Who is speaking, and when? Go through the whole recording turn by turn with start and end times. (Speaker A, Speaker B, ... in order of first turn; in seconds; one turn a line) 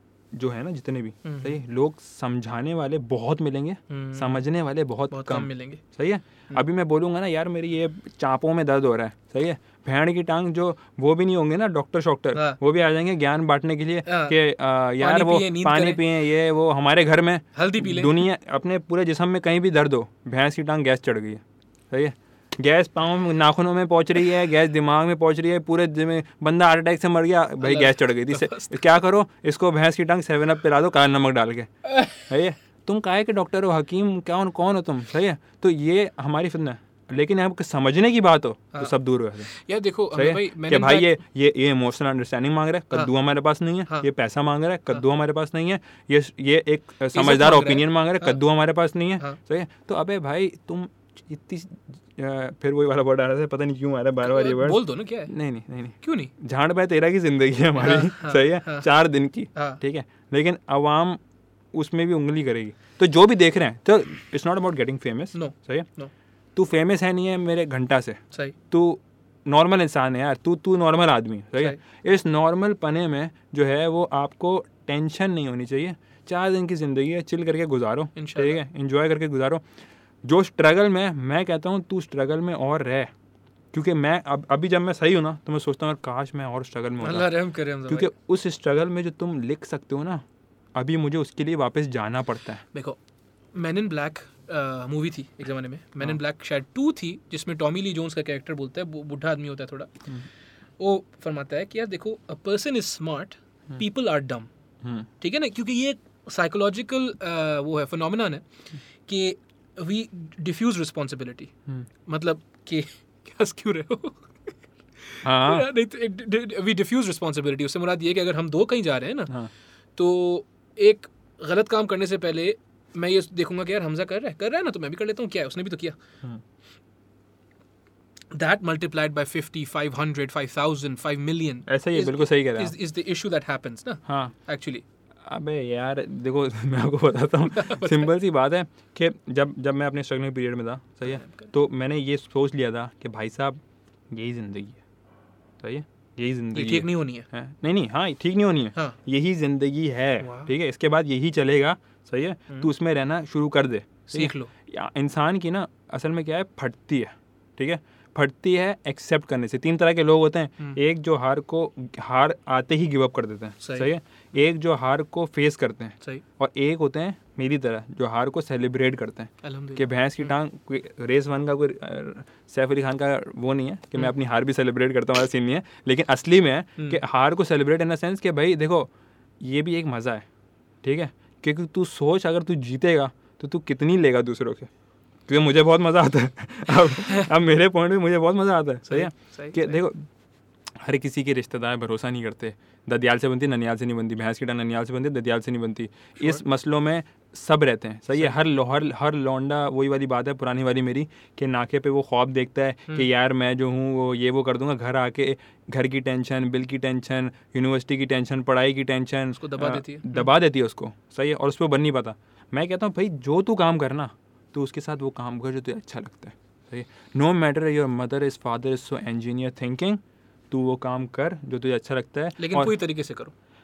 Speaker A: 0.3-39.5
Speaker B: 1.2-1.6
Speaker B: 3.9-4.5
Speaker B: 5.1-5.8
Speaker B: 14.1-14.4
Speaker B: 15.0-16.0
Speaker B: 17.5-18.2
Speaker B: 27.6-28.8
Speaker B: 39.4-41.2
Speaker A: 40.1-61.2
Speaker B: 47.1-48.4
Speaker B: 54.2-55.3
Speaker B: 56.0-56.3
Speaker B: 57.8-58.9
Speaker B: 59.5-59.8
Speaker A: 61.7-65.9
Speaker B: 65.3-66.1
Speaker A: 66.5-79.6
Speaker B: 78.2-78.6
Speaker A: 80.2-83.1
Speaker A: 83.7-87.3
Speaker B: 87.0-88.1
Speaker A: 87.9-90.2
Speaker A: 90.7-92.6
Speaker B: 93.5-99.9
Speaker B: 100.8-104.5
Speaker A: 104.8-105.1
Speaker B: 105.2-108.4
Speaker B: 109.0-111.5
Speaker B: 112.0-119.3
Speaker A: 115.2-115.7
Speaker B: 120.0-126.0
Speaker B: 128.3-134.8
Speaker A: 131.7-132.7
Speaker A: 134.1-134.3
Speaker A: 135.2-143.6
Speaker B: 137.5-138.1
Speaker B: 141.0-141.5
Speaker A: 144.1-144.8
Speaker A: 145.6-180.2
Speaker B: 146.5-147.3
Speaker B: 150.2-150.5
Speaker B: 154.1-154.5
Speaker B: 163.6-163.9
Speaker B: 169.4-170.3
Speaker A: 180.8-184.7
Speaker A: 185.3-190.1
Speaker B: 188.9-189.8
Speaker A: 190.8-220.0
Speaker B: 209.3-210.3
Speaker A: 220.5-222.8
Speaker B: 222.4-223.3